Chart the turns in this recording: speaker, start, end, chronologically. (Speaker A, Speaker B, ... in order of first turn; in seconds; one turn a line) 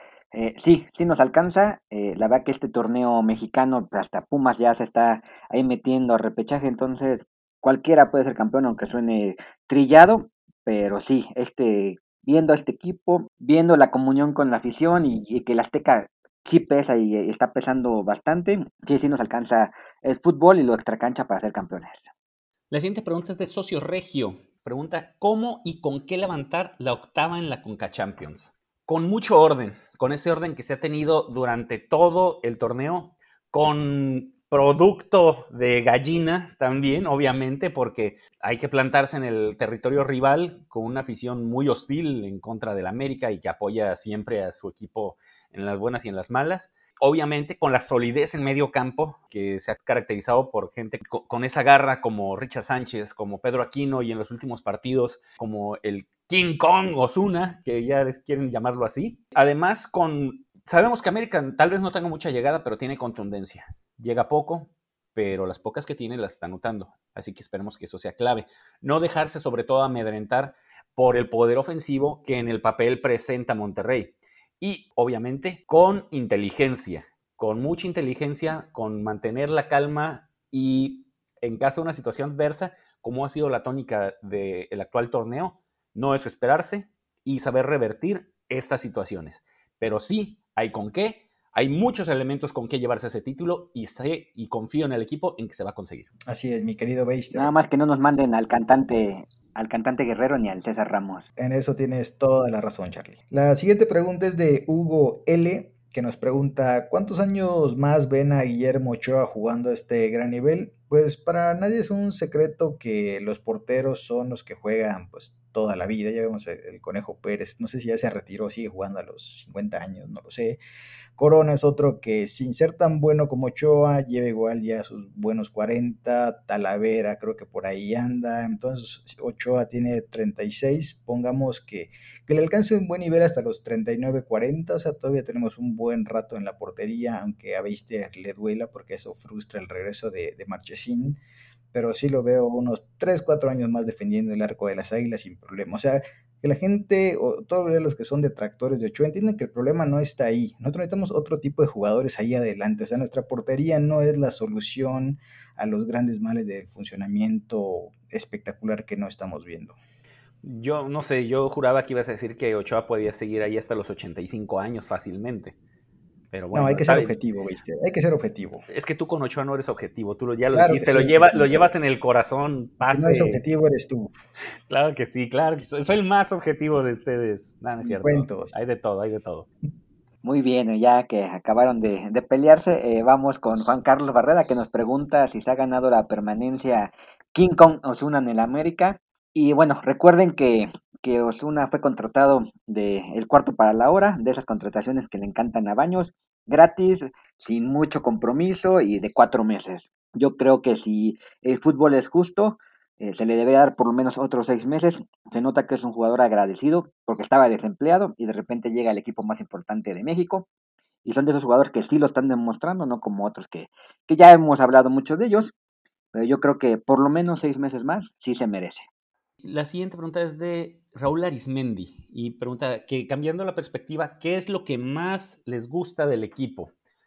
Speaker A: 0.3-22.1
Speaker B: 22.7-96.1
Speaker C: 96.3-97.5
Speaker A: 97.3-101.3
Speaker C: 101.4-120.6
Speaker C: 121.2-141.2
Speaker C: 141.7-159.8
Speaker B: 160.4-165.6
Speaker B: 166.3-167.1
Speaker C: 166.5-168.6
Speaker B: 168.7-173.4
Speaker C: 170.5-171.7
Speaker C: 172.9-174.1
Speaker B: 174.7-179.5
Speaker C: 177.8-178.6
Speaker A: 180.2-210.5
Speaker A: 211.1-215.5
Speaker A: 216.1-218.9
Speaker B: 219.4-226.7